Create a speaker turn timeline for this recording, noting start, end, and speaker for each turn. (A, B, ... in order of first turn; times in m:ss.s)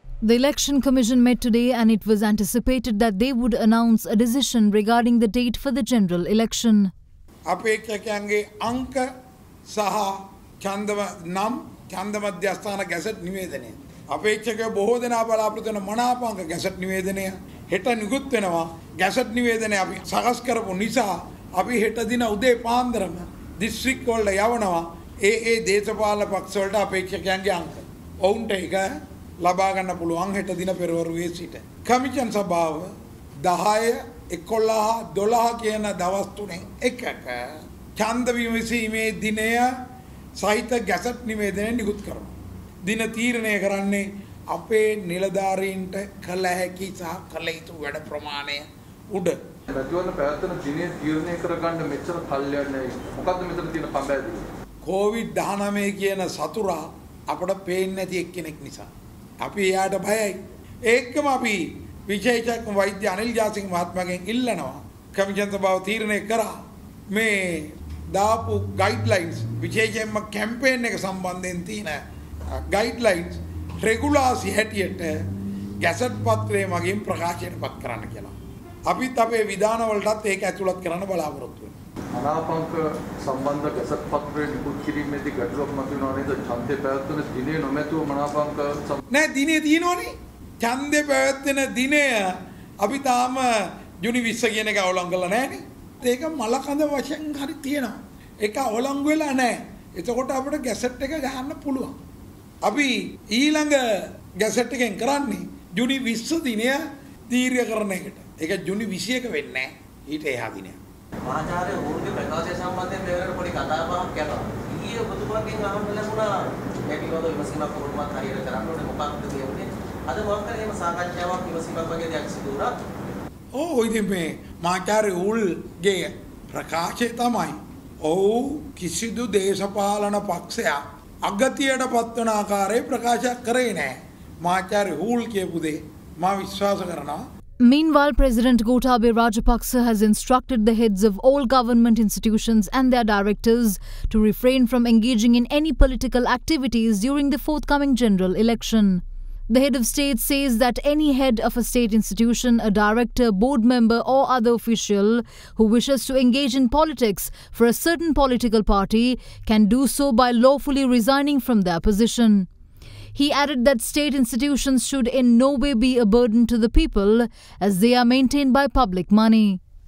0:00.2-0:06.9 A
0:07.5-0:09.1 B
0:09.7-0:28.9 B
0:29.4-0:32.9 B
0:33.5-0:39.7 B
0:40.4-0:42.4 B
0:42.9-0:49.4 B
0:49.7-0:54.5 C
0:54.8-0:58.9 B
0:59.4-1:00.4 B
1:00.9-1:06.5 B
1:07.1-1:12.0 B
1:12.7-1:15.2 B
1:15.8-1:18.4 B
1:18.9-1:21.8 B
1:22.1-1:29.0 C
1:29.1-1:42.0 B
1:42.6-1:43.8 B
1:44.4-1:50.8 B
1:51.2-2:02.8 D
2:03.6-2:17.2 B
2:17.6-2:42.5 A
2:43.1-2:49.6 A